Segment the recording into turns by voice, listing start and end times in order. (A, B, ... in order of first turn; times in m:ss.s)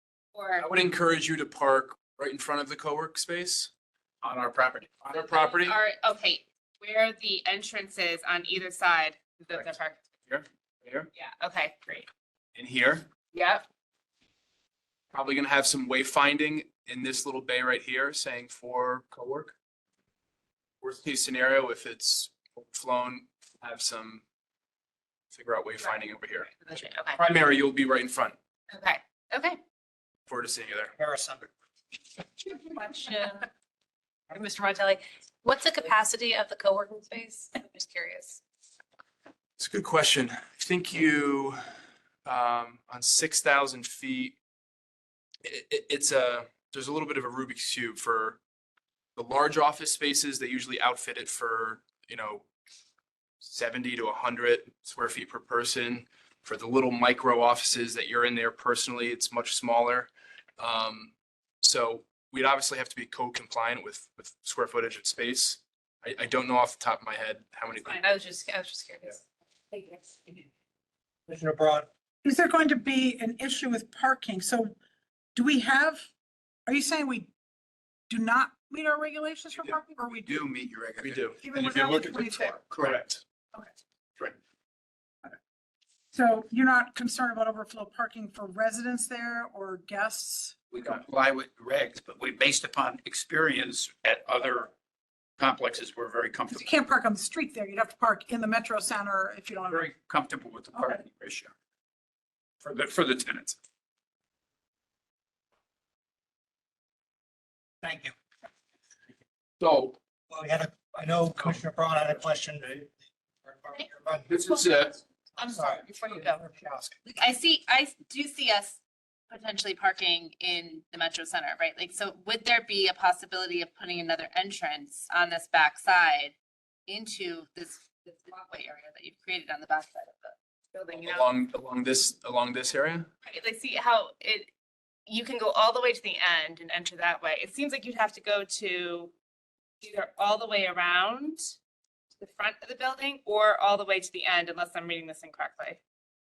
0:00.3-0:00.7 A
0:00.6-0:03.7 B
0:04.2-0:05.2 C
0:05.1-0:05.8 B
0:05.3-0:10.0 A
0:10.3-0:11.1 B
0:11.2-0:12.1 A
0:12.6-0:13.1 B
0:13.3-0:13.6 A
0:15.1-0:19.5 B
0:20.8-0:24.2 B
0:25.3-0:28.4 B
0:26.6-0:27.2 A
0:28.7-0:29.6 A
0:30.3-0:30.9 B
0:31.0-0:31.5 D
0:32.5-0:33.5 E
0:34.3-0:38.4 E
0:39.6-0:41.6 B
0:42.2-0:44.4 B
0:45.4-0:48.4 B
0:49.2-0:52.5 B
0:53.4-1:08.0 B
1:07.9-1:10.3 E
1:11.3-1:11.9 D
1:12.2-1:14.8 F
1:15.4-1:16.0 F
1:16.7-1:17.3 F
1:18.1-1:20.4 F
1:19.6-1:21.4 C
1:21.0-1:23.2 B
1:21.4-1:22.6 F
1:22.4-1:23.1 C
1:26.1-1:30.5 F
1:30.7-1:34.7 C
1:35.4-1:36.8 C
1:36.5-1:39.9 F
1:39.6-1:41.5 C
1:40.7-1:41.0 F
1:42.6-1:43.6 C
1:47.8-1:48.1 D
1:49.6-1:50.0 C
1:50.3-1:52.9 D
1:53.4-1:54.4 D
1:54.3-1:55.0 C
1:55.4-1:57.0 D
1:55.4-1:56.4 A
1:57.0-2:06.4 A
2:06.9-2:11.3 A
2:11.0-2:13.1 B
2:13.2-2:14.5 A
2:15.1-2:19.1 A
2:19.8-2:21.5 A
2:22.2-2:25.8 A